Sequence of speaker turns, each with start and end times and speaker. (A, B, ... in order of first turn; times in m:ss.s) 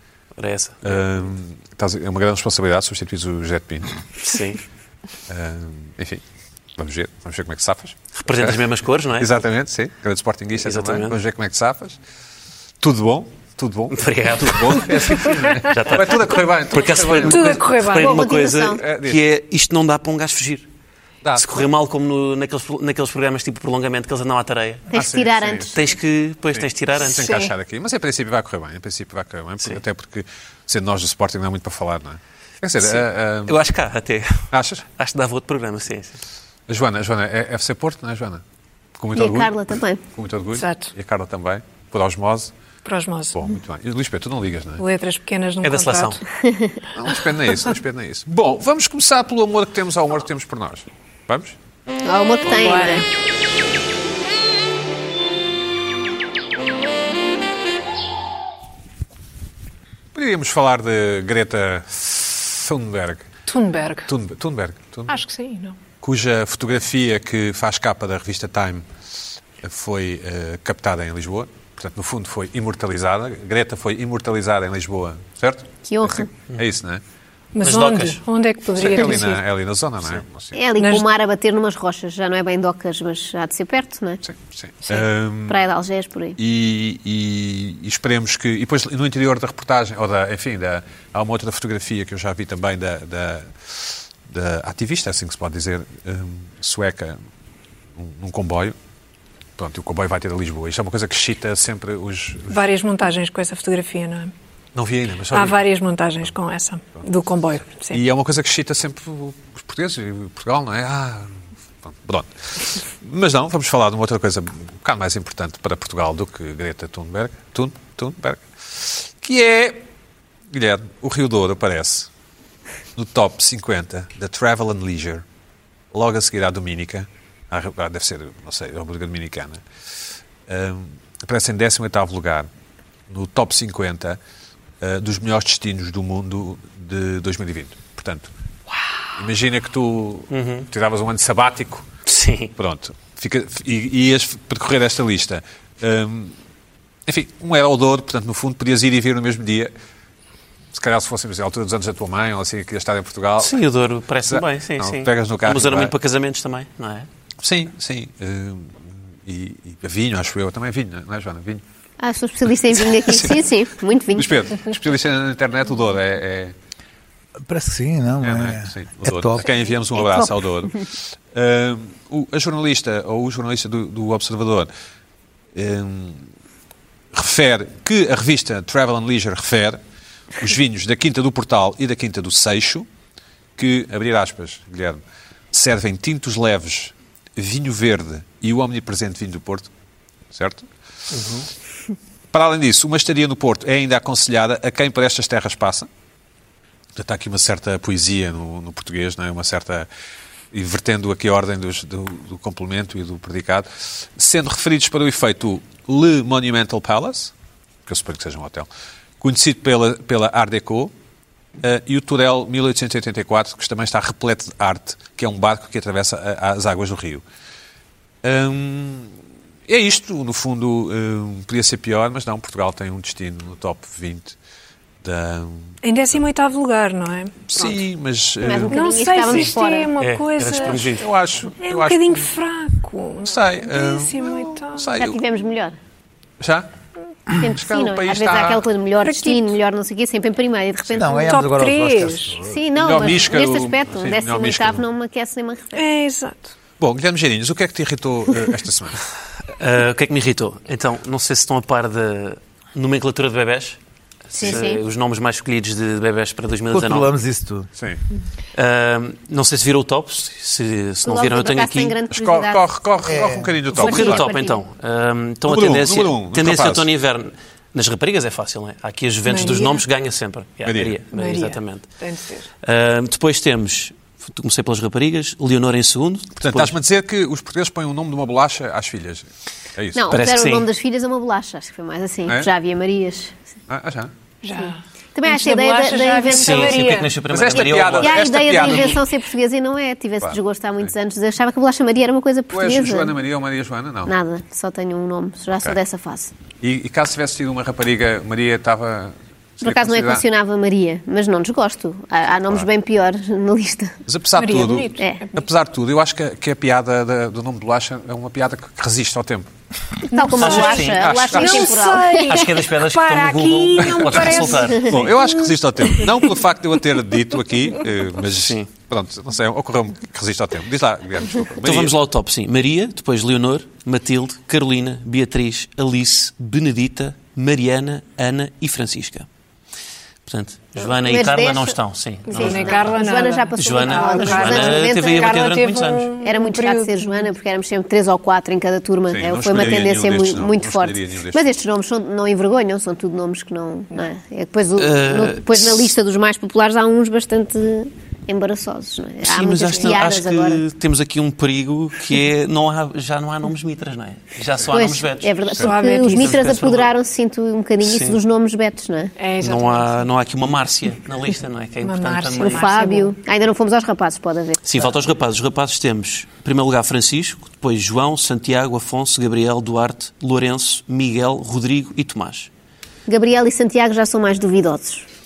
0:00.4-0:01.0 A
0:00.8-0:04.0 B
0:04.2-0:04.6 A
0:05.3-0:06.2 B
0:06.8-0:08.6 B
0:08.2-0:09.3 A
0:09.2-0:12.0 B
0:10.6-0:11.2 A
0:12.8-0:17.6 B
0:13.9-0:20.7 A
0:17.2-0:18.3 C
0:17.9-0:18.8 D
0:18.7-0:19.2 B
0:21.4-0:24.9 A
0:24.9-0:25.8 D
0:24.9-0:25.8 B
0:25.7-0:27.3 A
0:26.5-0:33.6 B
0:27.1-0:27.5 C
0:32.8-0:36.2 A
0:34.5-0:34.8 B
0:36.7-0:38.4 B
0:39.0-0:39.6 B
0:39.1-0:40.0 D
0:40.1-0:42.5 B
0:40.6-0:40.9 C
0:42.8-0:43.4 C
0:43.3-0:44.8 B
0:44.8-0:46.2 C
0:45.6-0:46.2 A
0:46.3-0:46.8 D
0:46.9-0:51.6 B
0:52.0-0:53.0 D
0:52.5-0:53.0 C
1:00.1-1:03.3 B
1:03.4-1:04.1 C
1:04.1-1:05.2 B
1:05.1-1:05.8 C
1:06.0-1:08.9 B
1:09.6-1:17.0 B
1:15.9-1:16.3 D
1:17.6-1:19.4 C
1:17.6-1:18.2 A
1:18.8-1:20.6 B
1:20.5-1:24.2 D
1:20.8-1:21.0 C
1:24.2-1:25.6 B
1:25.5-1:26.4 D
1:26.4-1:37.2 B
1:38.0-1:38.8 B
1:39.6-1:42.6 B
1:42.5-1:44.3 C
1:44.8-1:45.6 B
1:45.3-1:48.0 C
1:47.9-1:59.8 B
2:00.5-2:02.1 B
2:03.0-2:05.2 B
2:05.9-2:09.6 B
2:10.5-2:12.5 B
2:13.1-2:14.2 B
2:14.8-2:18.3 B
2:19.1-2:21.8 B
2:20.3-2:20.7 A
2:22.1-2:22.5 A
2:22.6-2:26.3 B
2:27.1-2:29.7 B
2:30.7-2:33.6 B
2:33.4-2:37.1 A
2:34.3-2:35.9 B
2:37.4-2:41.6 B
2:42.0-2:44.3 D
2:43.1-2:43.3 B
2:44.2-2:46.5 B
2:47.4-2:49.5 E
2:48.2-2:54.7 B
2:50.0-2:50.3 D
2:55.5-2:56.3 B
2:57.1-2:59.8 B
3:00.4-3:02.9 B
3:03.6-3:05.0 B
3:05.5-3:09.7 B
3:10.3-3:10.7 B
3:11.1-3:11.5 A
3:12.3-3:15.9 B
3:17.0-3:19.9 B
3:20.5-3:27.3 B
3:27.8-3:28.7 B
3:29.2-3:30.9 B
3:31.6-3:37.2 B
3:38.2-3:39.1 B
3:39.7-3:44.4 B
3:45.0-3:45.7 B
3:45.8-3:47.8 C
3:47.5-3:49.5 B
3:48.4-3:49.9 D
3:48.7-3:51.0 C
3:50.0-3:51.1 A
3:50.6-3:52.3 B
3:51.6-3:54.9 C
3:53.2-3:55.2 B
3:55.0-3:55.8 D
3:56.4-3:56.7 B
3:57.4-4:01.4 D
3:57.4-3:58.6 B
3:59.0-3:59.5 C
4:00.9-4:02.6 E
4:01.2-4:02.4 C
4:02.4-4:05.8 D
4:02.8-4:04.9 B
4:05.7-4:06.5 C
4:06.8-4:09.0 B
4:09.5-4:13.8 A
4:14.3-4:14.8 D
4:14.3-4:17.1 A
4:16.7-4:17.7 E
4:18.5-4:22.0 A
4:21.0-4:22.6 D
4:22.1-4:24.3 B
4:23.0-4:23.5 E
4:23.7-4:31.9 A
4:23.8-4:24.6 D
4:25.4-4:26.9 B
4:29.2-4:29.8 C
4:30.6-4:31.0 B
4:31.1-4:32.5 C
4:32.6-4:36.8 A
4:36.4-4:40.2 B
4:39.9-4:43.3 D
4:40.1-4:40.7 A
4:43.7-4:44.1 B
4:44.4-4:47.1 C
4:44.5-4:47.0 D
4:46.3-4:48.8 A
4:47.3-4:49.0 B
4:47.7-4:53.1 D
4:50.2-4:50.9 B
4:52.5-4:54.1 B
4:54.1-4:56.3 D
4:56.6-5:00.2 B
4:59.6-5:03.9 D
5:04.1-5:09.5 B
5:04.4-5:05.3 C
5:10.1-5:12.4 D
5:10.1-5:15.0 C
5:10.4-5:11.4 A
5:11.0-5:11.7 B
5:12.3-5:15.1 A
5:14.8-5:21.9 B
5:18.3-5:18.7 A
5:21.6-5:29.3 A
5:30.2-5:33.0 A
5:30.8-5:31.8 D
5:32.3-5:37.3 C
5:32.3-5:32.6 B
5:32.3-5:35.4 D
5:33.6-5:36.1 A
5:36.2-5:50.6 D
5:39.1-5:41.5 B
5:44.8-5:45.9 A
5:49.2-5:56.9 A
5:54.7-5:59.1 D
5:55.6-5:56.4 C
5:57.8-5:58.2 A
5:59.2-6:00.0 C
5:59.4-6:02.7 A
6:01.8-6:03.1 C
6:02.4-6:04.6 D
6:04.6-6:12.5 A
6:13.1-6:15.0 D